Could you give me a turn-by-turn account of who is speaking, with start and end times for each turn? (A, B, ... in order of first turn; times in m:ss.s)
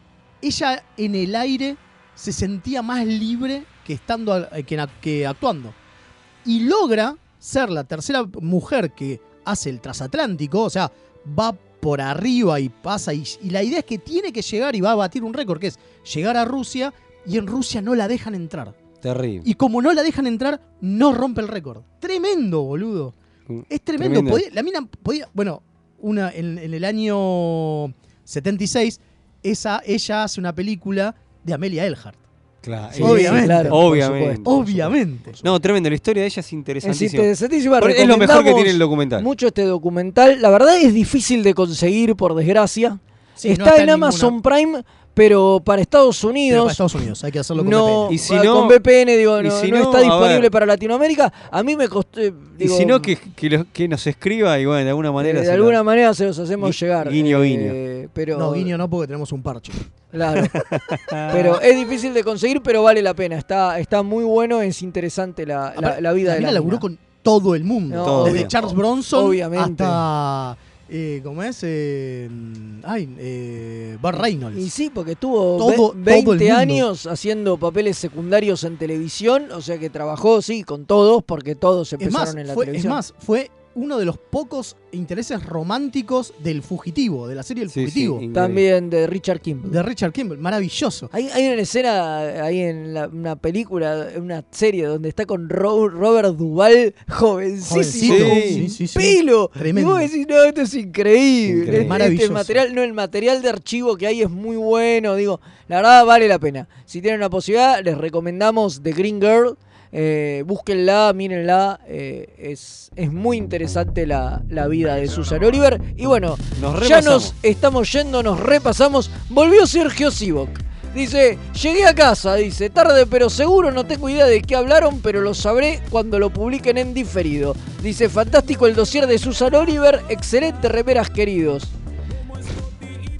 0:00.4-0:05.8 A
0:06.4-0:18.8 A
0:19.0-0:19.5 B
0:19.4-0:23.2 A
0:23.5-0:24.4 B
0:23.7-0:32.2 A
0:32.6-0:39.3 B
0:33.0-0:33.8 A
0:33.0-0:34.4 C
0:34.4-0:35.5 A
0:36.8-0:46.8 C
0:43.4-0:44.4 A
0:46.5-0:48.2 A
0:47.6-0:53.1 C
0:48.1-0:48.8 B
0:49.4-0:50.5 B
0:52.6-0:55.8 B
0:55.2-0:58.7 C
0:56.6-0:57.8 B
0:58.3-0:59.8 A
1:00.1-1:00.6 C
1:00.5-1:01.4 B
1:01.3-1:06.8 C
1:05.8-1:14.6 A
1:07.9-1:10.0 C
1:08.0-1:08.5 B
1:14.5-1:23.0 C
1:15.6-1:16.9 A
1:22.0-1:28.2 A
1:27.7-1:28.6 B
1:28.3-1:29.8 C
1:29.7-1:31.1 A
1:31.1-2:11.7 C
1:37.7-1:40.1 A
1:38.0-1:38.6 B
1:41.5-1:42.0 B
1:41.7-1:42.6 A
1:56.6-1:57.3 B